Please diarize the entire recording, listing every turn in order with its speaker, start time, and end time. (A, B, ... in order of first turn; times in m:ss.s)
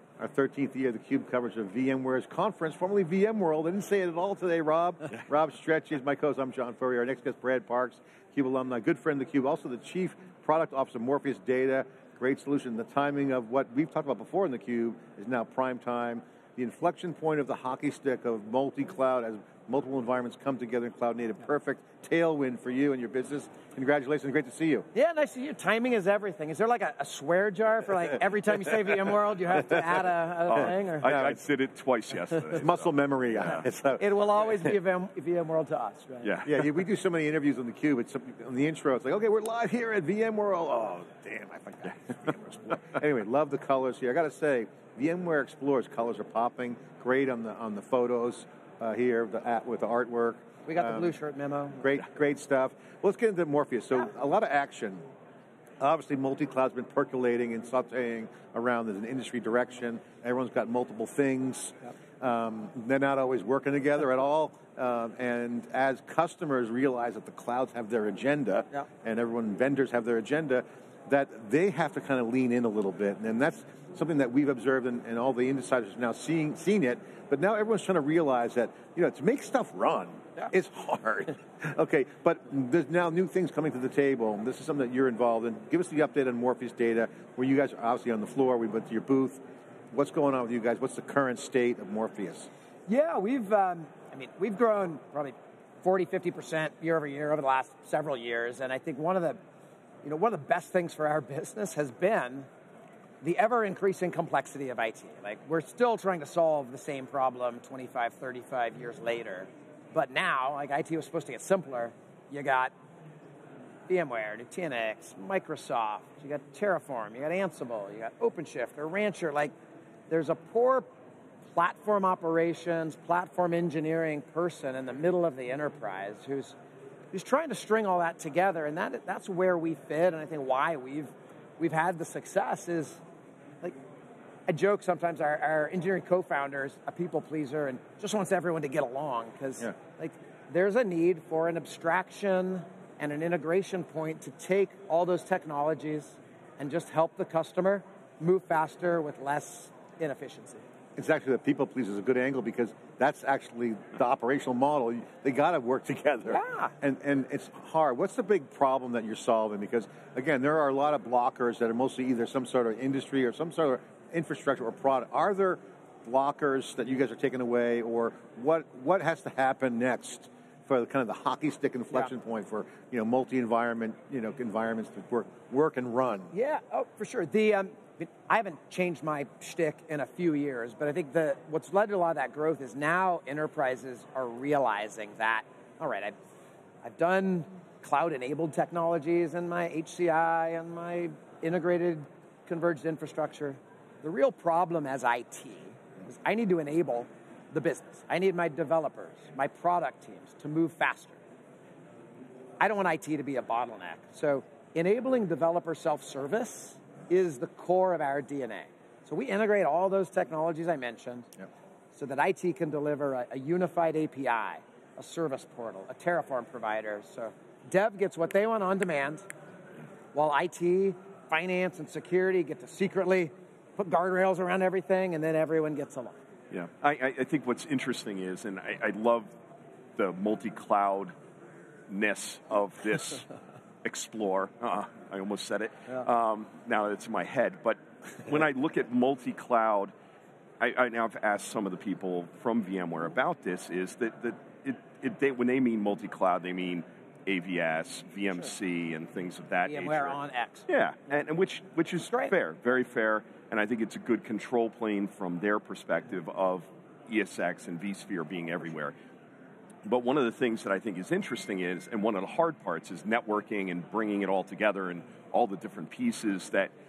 0:00.2-0:24.9 A
0:24.9-0:31.2 B
0:30.5-0:32.9 C
0:30.5-0:31.4 A
0:32.5-0:34.7 A
0:34.0-0:36.4 B
0:36.2-0:36.7 C
0:36.4-0:51.1 A
0:50.7-0:51.9 B
0:51.8-0:55.0 A
0:55.8-1:29.4 A
1:29.9-1:32.5 A
1:32.9-1:39.4 B
1:40.0-1:42.5 B
1:43.2-1:52.7 B
1:53.9-1:59.5 B
2:00.1-2:00.9 B
2:01.5-2:06.6 B
2:07.1-2:13.0 B
2:14.5-2:30.6 B
2:31.0-2:56.3 A
2:36.3-2:36.7 B
2:56.3-3:06.1 B
3:06.8-3:21.2 B
3:22.6-3:31.3 B
3:31.9-3:39.3 B
3:40.1-3:46.2 B
3:46.5-3:49.3 C
3:50.0-3:51.1 C
3:51.9-3:53.3 C
3:53.8-3:59.9 C
4:00.6-4:10.2 C
4:09.7-4:10.7 B
4:10.7-4:18.9 C
4:12.0-4:12.3 B
4:19.9-4:26.7 C